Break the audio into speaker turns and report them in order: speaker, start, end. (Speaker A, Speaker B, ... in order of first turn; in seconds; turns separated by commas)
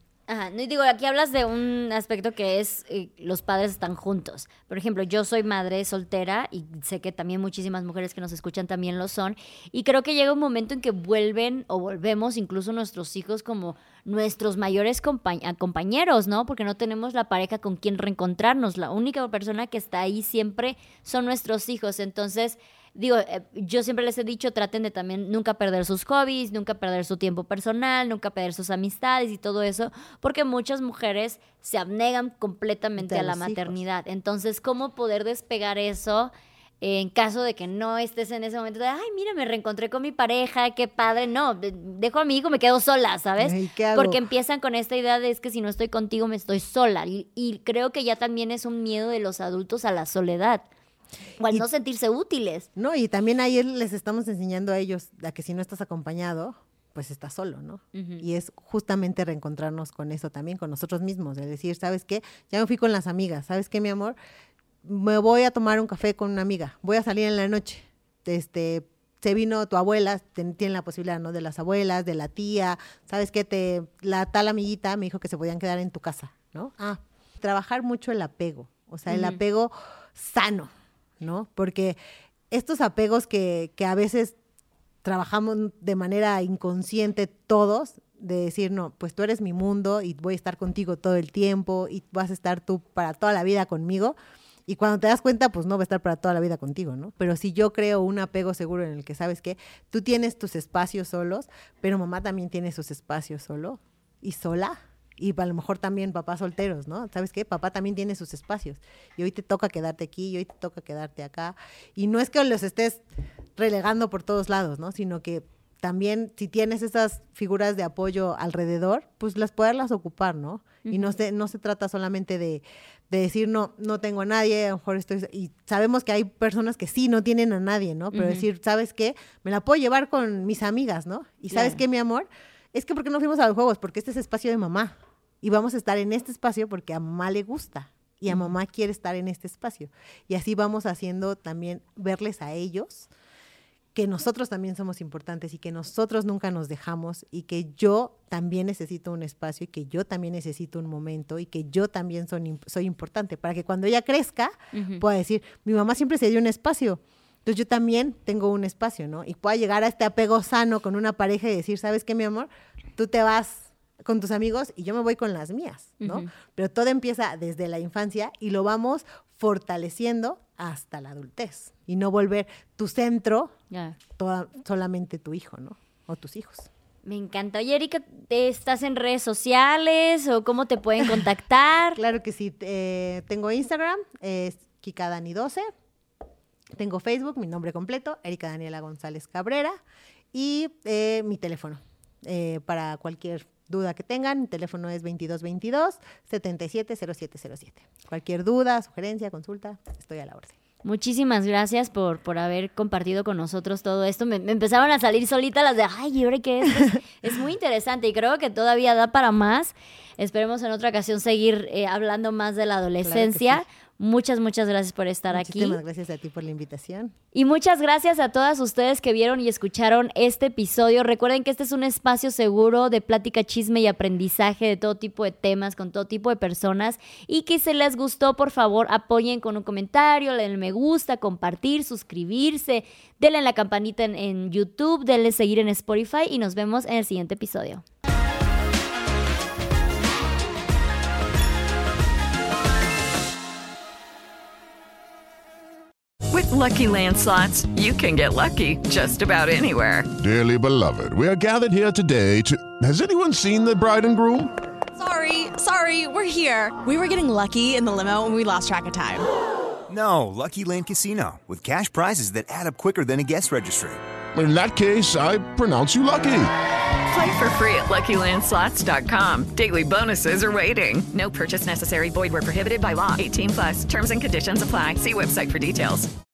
Speaker A: 0.3-50.6, Speaker B: 33.0-33.8, Speaker B: 43.4-44.2, Speaker A: 51.4-52.7, Speaker B: 52.8-64.2, Speaker A: 57.9-58.2, Speaker B: 64.8-82.0, Speaker A: 79.1-79.4, Speaker B: 82.5-84.3, Speaker B: 85.0-113.0, Speaker B: 113.5-143.1, Speaker A: 120.8-121.1, Speaker A: 128.1-128.4, Speaker A: 131.5-131.8, Speaker B: 143.9-173.6, Speaker A: 154.7-155.0, Speaker A: 166.0-166.3, Speaker A: 173.7-174.0, Speaker B: 174.1-176.7, Speaker A: 177.0-182.0, Speaker B: 181.9-185.7, Speaker B: 186.7-189.8, Speaker B: 190.3-200.5, Speaker A: 200.8-215.8, Speaker B: 213.0-213.6, Speaker B: 215.3-217.1, Speaker A: 217.3-237.8, Speaker C: 246.3-250.1, Speaker D: 250.2-254.5, Speaker E: 254.9-259.3, Speaker F: 259.9-264.0, Speaker D: 264.3-266.5, Speaker C: 267.1-276.1